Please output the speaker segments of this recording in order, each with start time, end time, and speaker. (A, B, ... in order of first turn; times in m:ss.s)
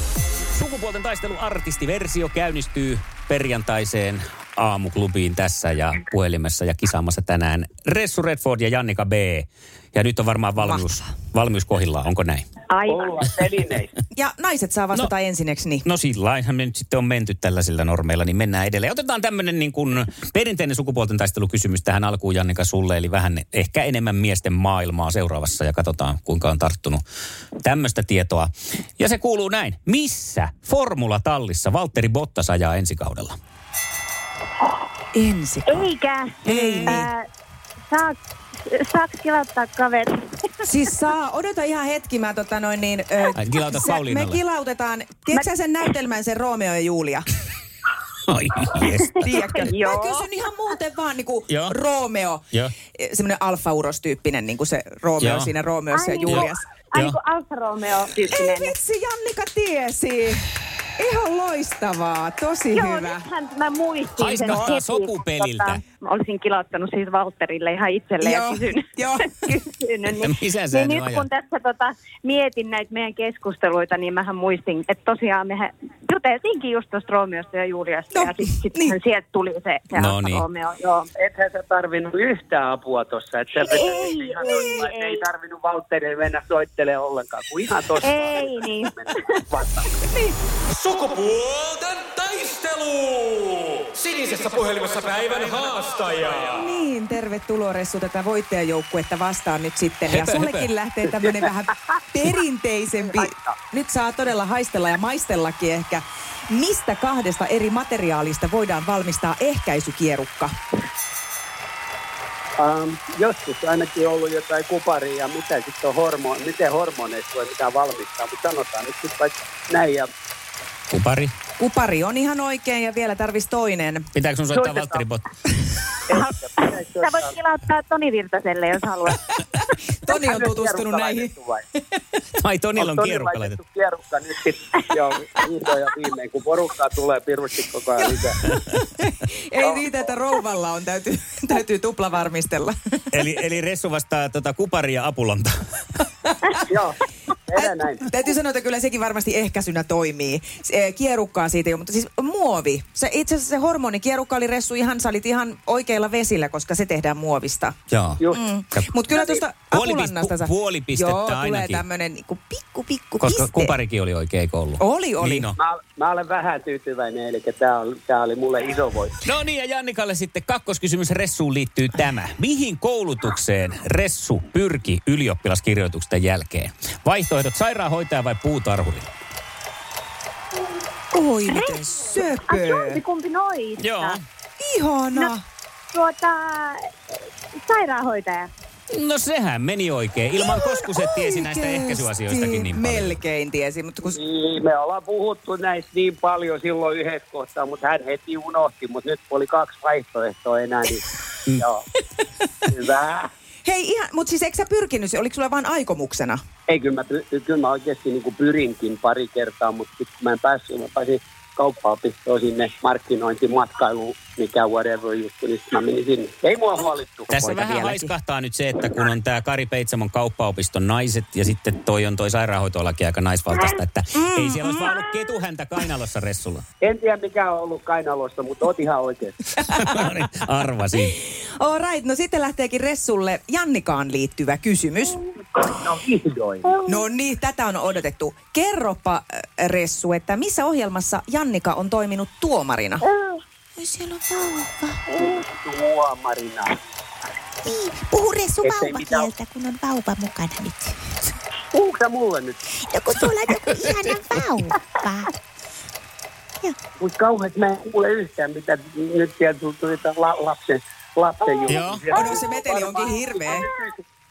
0:00.5-0:12.4 A
0:10.6-0:10.9 B
0:12.7-0:13.2 C
0:12.9-0:13.9 D
0:14.1-0:15.8 B
0:15.8-0:27.0 A
0:27.6-0:33.4 A
0:35.1-0:35.9 B
0:35.6-0:37.2 C
0:36.4-0:37.1 B
0:36.4-0:37.0 A
0:37.9-0:40.6 C
0:40.6-0:47.2 B
0:43.4-0:44.4 A
0:48.3-0:49.3 A
0:49.2-0:56.6 B
0:49.5-0:50.3 C
0:55.2-0:55.5 A
0:55.9-0:58.7 C
0:56.3-0:57.2 A
0:58.3-1:03.2 B
1:02.7-1:21.1 C
1:04.2-1:05.8 A
1:08.2-1:09.6 B
1:10.2-1:11.3 A
1:18.1-1:19.0 B
1:19.9-1:20.4 A
1:21.2-1:30.0 D
1:23.6-1:25.2 C
1:24.4-1:24.8 B
1:28.0-1:29.4 C
1:30.1-1:30.4 B
1:30.7-1:36.5 E
1:36.4-1:50.5 B
1:40.1-1:40.7 A
1:43.0-1:43.5 D
1:52.6-2:00.1 D
2:00.9-2:01.3 A
2:01.6-2:04.1 B
2:04.1-2:05.2 A
2:04.5-2:05.0 D
2:06.1-2:07.3 D
2:06.1-2:09.2 C
2:10.0-2:11.3 B
2:10.1-2:11.6 D
2:12.4-2:13.6 A
2:12.8-2:18.4 D
2:18.6-2:23.2 B
2:19.6-2:19.9 D
2:23.1-2:25.5 A
2:26.7-2:28.0 D
2:27.5-2:37.8 B
2:37.9-2:38.2 A
2:38.2-2:38.4 D
2:38.3-2:43.7 B
2:39.1-2:39.4 D
2:39.7-2:41.8 A
2:43.2-2:45.6 A
2:44.8-2:45.5 B
2:45.6-2:49.2 D
2:49.2-2:59.1 A
3:01.1-3:03.0 B
3:01.5-3:04.2 C
3:03.8-3:04.2 A
3:04.6-3:05.4 B
3:05.9-3:06.9 C
3:07.6-3:08.5 C
3:08.9-3:13.2 A
3:10.4-3:14.2 B
3:14.1-3:21.8 D
3:22.6-3:23.3 D
3:23.6-3:26.4 B
3:26.7-3:37.4 D
3:37.3-3:46.6 A
3:37.4-3:38.1 B
3:44.1-3:45.0 B
3:46.8-3:49.6 D
3:49.6-3:51.2 A
3:51.0-3:55.2 B
3:55.6-3:56.7 D
3:56.6-3:57.0 C
3:56.8-4:03.0 B
4:03.0-4:03.4 C
4:03.8-4:05.0 F
4:05.2-4:06.8 D
4:07.7-4:10.9 F
4:08.6-4:09.3 D
4:11.7-4:12.6 D
4:13.0-4:15.2 F
4:13.7-4:14.4 A
4:17.0-4:23.9 D
4:21.7-4:22.1 A
4:22.1-4:23.6 B